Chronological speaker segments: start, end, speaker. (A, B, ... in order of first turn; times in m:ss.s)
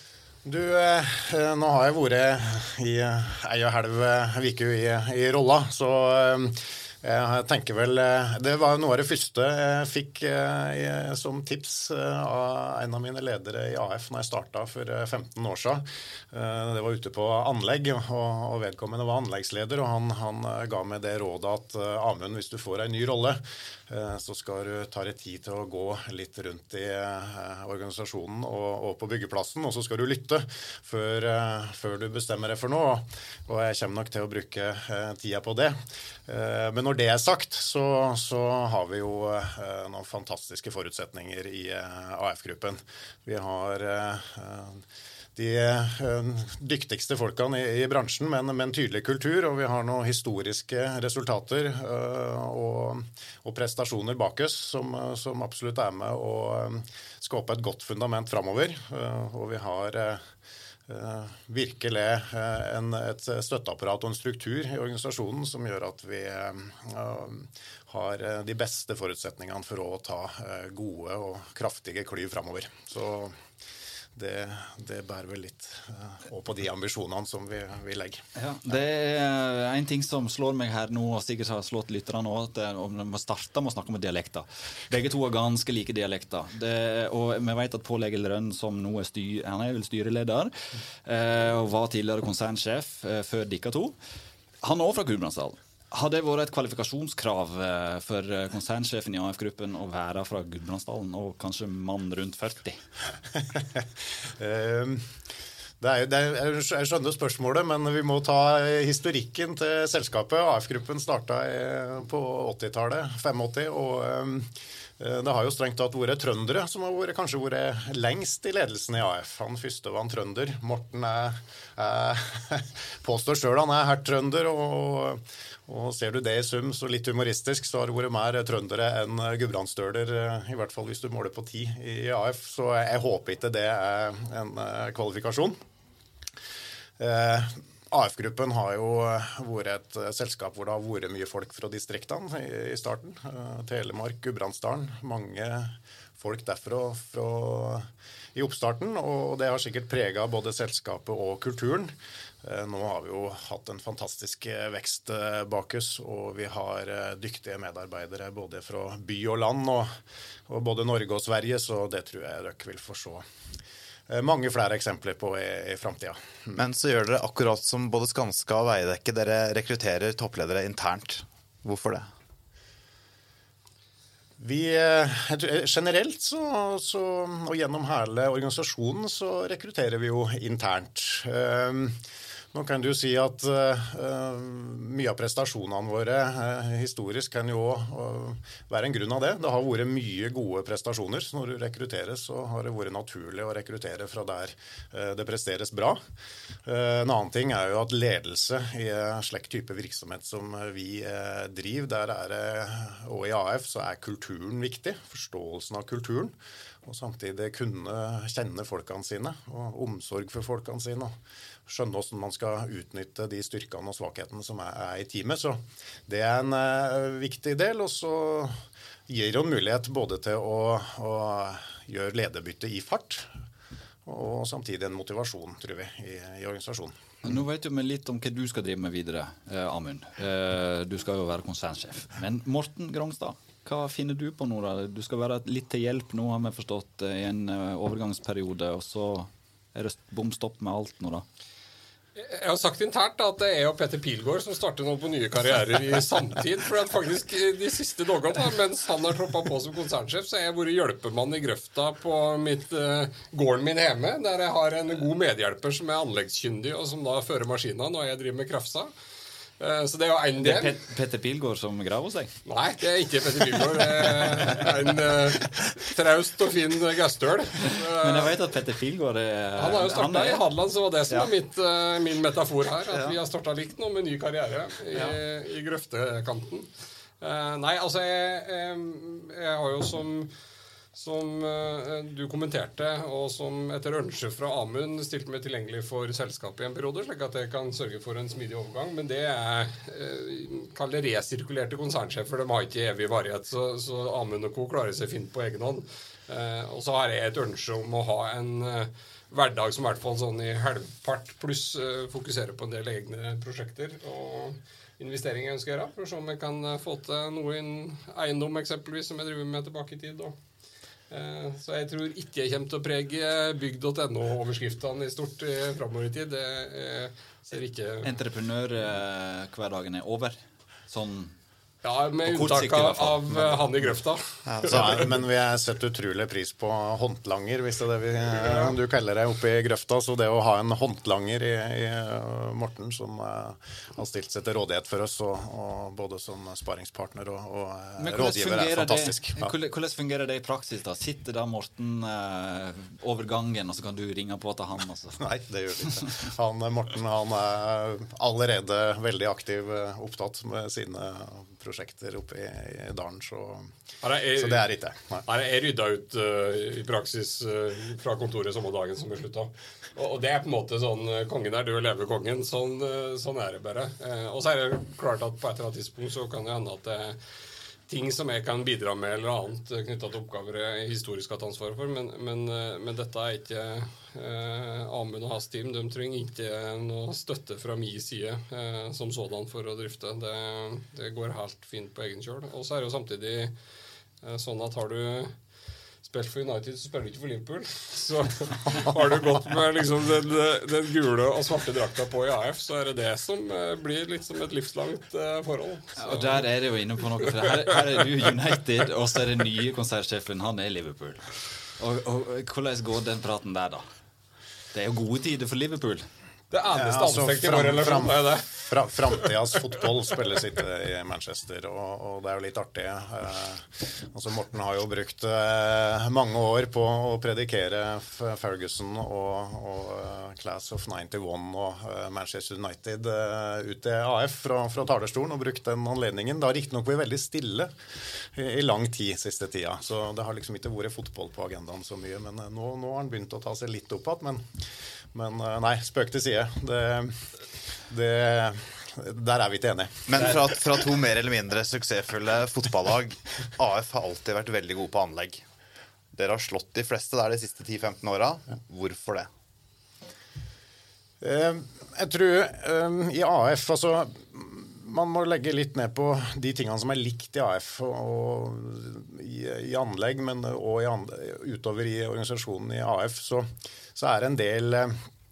0:00.4-0:44.8 A
0:45.4-1:00.3 A
1:00.9-1:13.4 A
1:14.1-1:18.2 A
1:18.4-1:33.9 B
1:34.6-1:42.8 B
1:43.5-1:45.1 A
1:45.8-2:15.6 A
2:17.0-2:39.9 A
2:40.5-2:43.2 A
2:44.1-2:46.6 A
2:46.6-2:52.1 C
2:54.4-3:02.0 A
3:02.5-3:16.0 A
3:16.6-3:31.2 A
3:31.7-3:43.3 A
3:44.1-3:46.9 A
3:47.2-4:01.2 B
4:02.2-4:18.9 D
4:19.6-4:20.8 D
4:20.4-4:22.3 B
4:22.4-4:28.4 D
4:27.6-4:30.4 B
4:29.6-4:36.7 D
4:37.2-4:40.3 D
4:40.9-5:10.4 D
5:11.1-5:18.1 D
5:18.0-5:20.4 B
5:20.9-5:21.3 B
5:21.8-5:24.9 D
5:22.2-5:23.6 B
5:24.4-5:25.1 C
5:24.7-5:39.5 A
5:28.4-5:28.7 D
5:38.0-5:45.2 B
5:45.2-5:53.7 A
5:54.0-5:54.7 D
5:54.4-5:55.2 A
5:55.2-6:07.2 D
6:07.9-6:23.5 D
6:24.2-6:25.3 D
6:26.0-6:36.4 D
6:36.0-6:43.9 B
6:44.7-6:46.1 B
6:46.5-6:48.6 D
6:46.7-7:17.3 A
7:17.9-7:20.5 A
7:20.1-7:25.4 C
7:26.1-7:29.3 C
7:31.2-7:45.0 A